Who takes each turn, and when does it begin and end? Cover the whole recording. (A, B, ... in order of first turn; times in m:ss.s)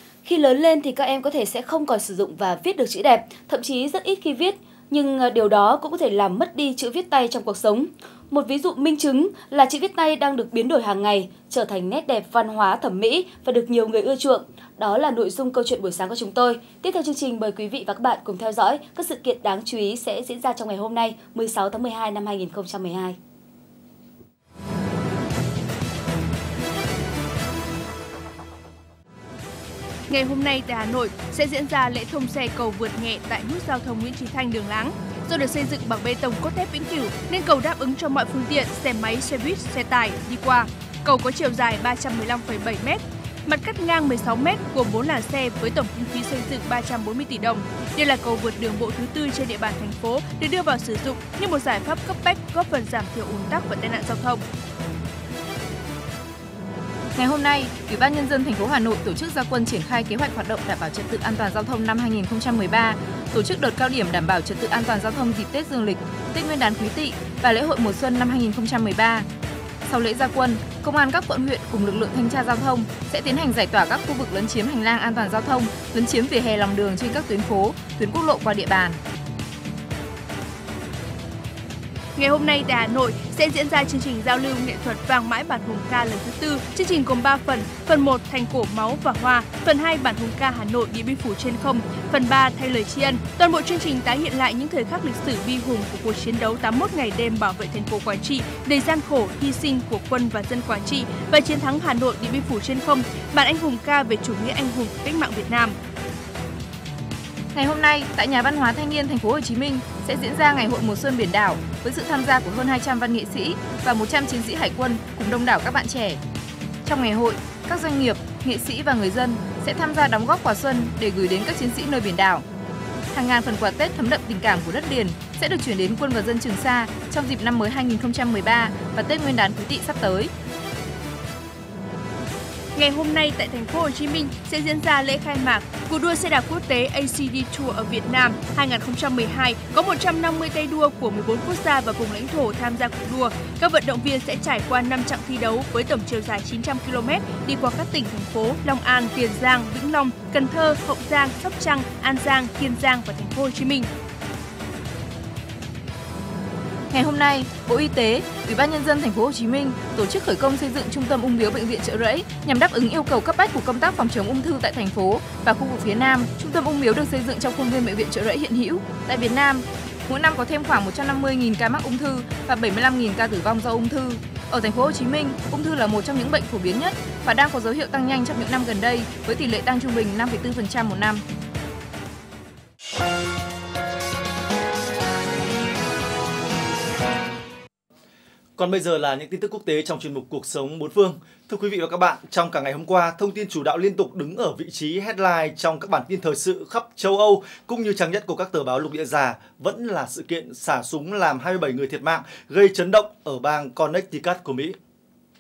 0:00.2-0:23.2 A
0:30.1-0:54.4 B
0:57.1-1:09.3 C
1:09.8-1:19.0 C
1:22.2-1:45.8 B
1:47.5-1:56.2 C
1:56.8-2:02.4 C
2:03.1-2:10.3 C
2:12.8-2:33.9 B
2:36.9-3:01.2 C
3:08.6-3:24.8 D